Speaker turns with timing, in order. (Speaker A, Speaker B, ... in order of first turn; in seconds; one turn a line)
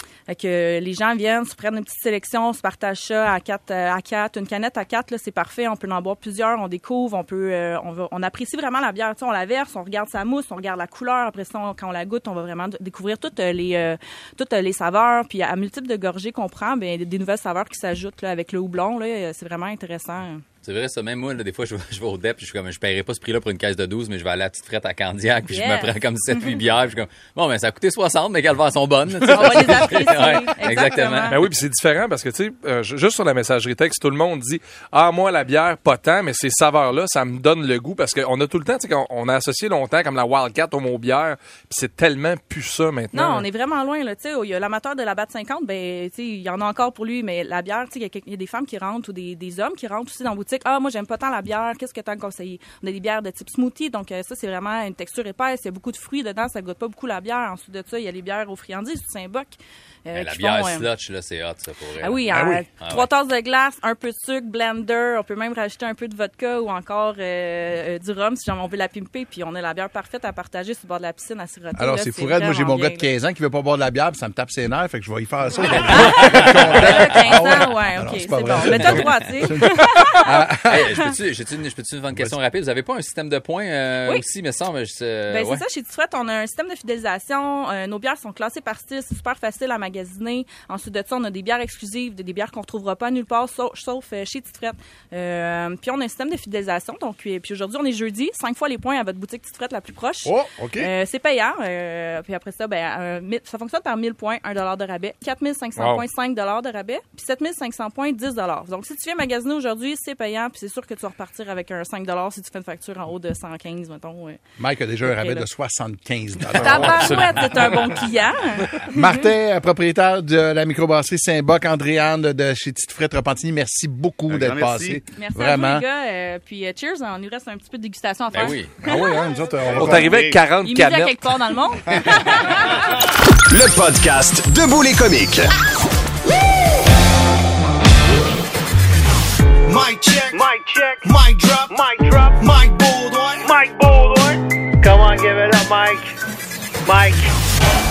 Speaker A: 0.3-20.4
Speaker B: 20.6-31.3
Speaker A: 25.5-26.6
Speaker C: 29.3-29.7
Speaker A: 29.3-31.5
Speaker C: 31.3-43.5
Speaker A: 43.1-59.5
Speaker A: 60.0-60.9
Speaker B: 60.1-62.2
Speaker A: 62.0-73.1
Speaker D: 62.3-62.6
Speaker B: 62.8-63.1
Speaker D: 71.8-81.1
Speaker A: 75.9-80.5
Speaker B: 75.9-77.0
Speaker B: 78.6-79.0
Speaker B: 80.6-85.6
Speaker A: 85.3-114.4
Speaker D: 100.2-100.9
Speaker D: 114.6-117.4
Speaker A: 115.0-115.5
Speaker C: 116.5-117.8
Speaker A: 116.6-119.3
Speaker D: 118.8-125.8
Speaker A: 125.1-129.3
Speaker B: 128.3-128.8
Speaker D: 128.8-130.4
Speaker C: 129.7-131.1
Speaker A: 130.6-132.9
Speaker E: 133.5-135.5
Speaker F: 139.7-146.1
Speaker F: 146.8-147.3